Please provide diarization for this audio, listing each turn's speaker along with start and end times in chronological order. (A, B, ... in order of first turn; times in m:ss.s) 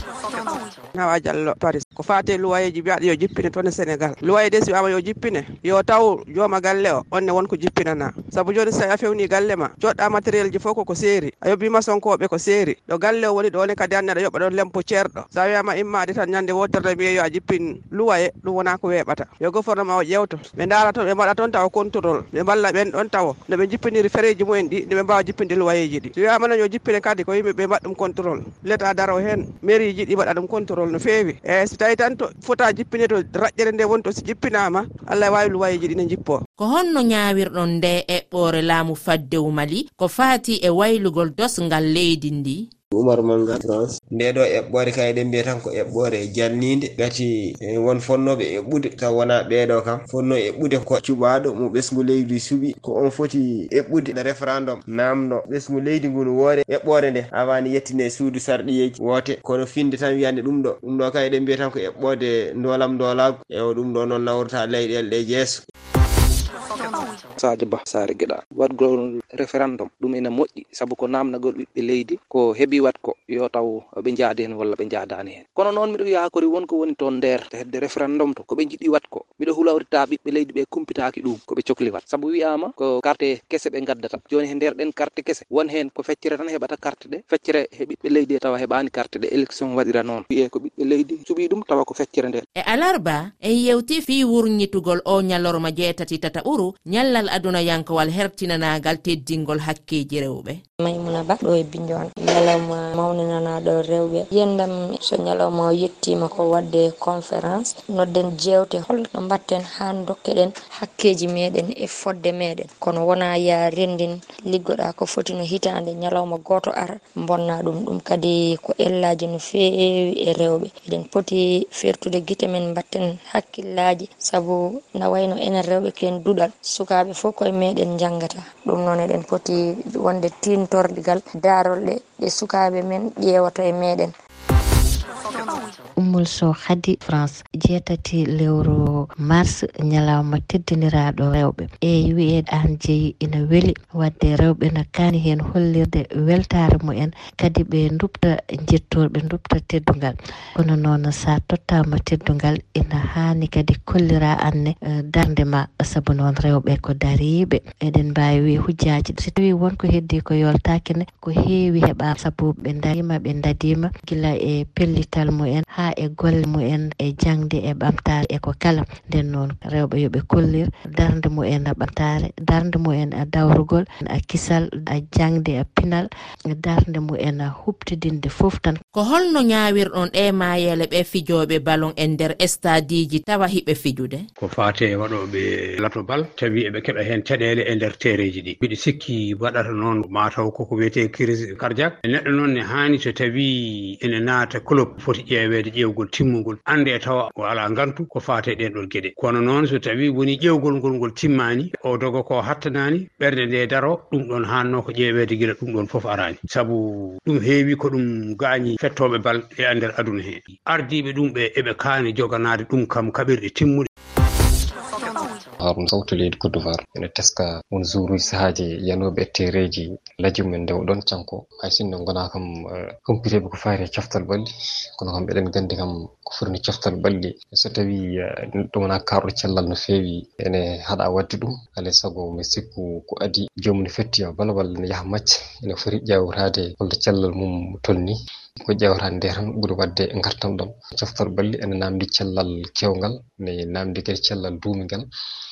0:00.4-0:36.4 A
0:36.6-0:42.6 B
0:42.9-1:05.6 C
1:07.4-1:32.4 D
1:32.6-1:40.6 B
1:40.8-2:14.1 E
2:16.0-2:56.1 F
2:56.6-2:58.8 F
2:58.9-3:04.2 B
3:04.4-3:33.9 G
3:35.6-3:44.5 H
3:45.0-4:05.0 H